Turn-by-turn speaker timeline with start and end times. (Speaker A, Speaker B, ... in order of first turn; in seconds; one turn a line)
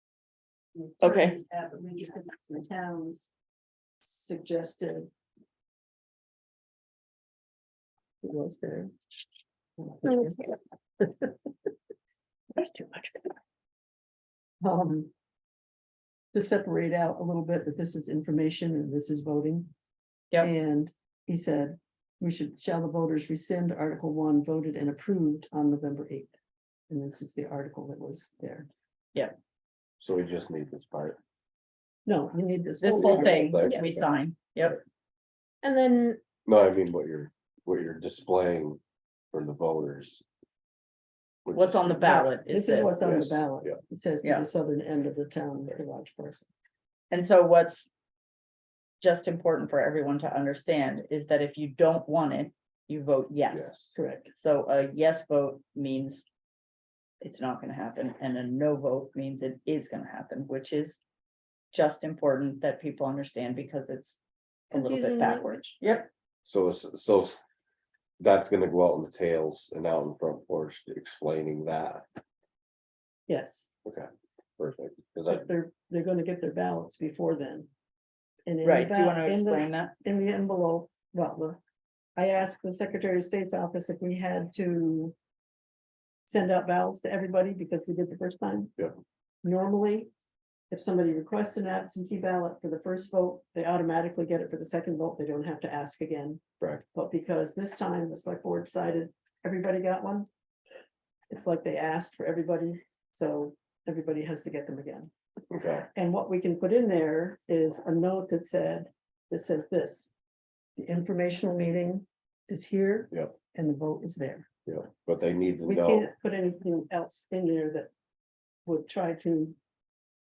Speaker A: 0.7-3.3
Speaker B: 1.0-1.4
Speaker A: 4.0-5.1
Speaker A: 8.2-8.9
Speaker A: 9.8-11.3
Speaker C: 10.0-10.3
Speaker A: 14.6-15.1
Speaker A: 16.3-19.7
Speaker A: 20.4-26.3
Speaker A: 26.9-28.7
Speaker D: 30.0-31.2
Speaker A: 32.0-33.6
Speaker B: 32.8-34.8
Speaker D: 33.0-34.0
Speaker C: 33.6-33.9
Speaker C: 35.6-36.2
Speaker D: 36.4-38.8
Speaker D: 39.3-40.2
Speaker D: 41.4-42.2
Speaker B: 41.5-43.0
Speaker A: 42.0-46.5
Speaker D: 43.0-43.8
Speaker B: 47.1-47.9
Speaker B: 49.0-56.2
Speaker D: 53.5-53.8
Speaker A: 53.9-54.3
Speaker B: 57.2-61.0
Speaker B: 61.7-64.2
Speaker C: 64.7-65.7
Speaker B: 64.7-66.1
Speaker D: 66.5-67.4
Speaker D: 68.2-72.0
Speaker A: 73.3-73.7
Speaker D: 73.8-75.5
Speaker A: 75.3-77.7
Speaker A: 78.5-81.6
Speaker B: 78.6-79.9
Speaker A: 82.2-85.1
Speaker A: 86.2-88.7
Speaker A: 89.4-90.1
Speaker A: 90.7-100.3
Speaker A: 101.3-105.1
Speaker D: 105.5-105.8
Speaker A: 105.9-110.1
Speaker A: 110.8-114.5
Speaker D: 114.7-116.1
Speaker A: 115.6-117.9
Speaker A: 118.7-119.5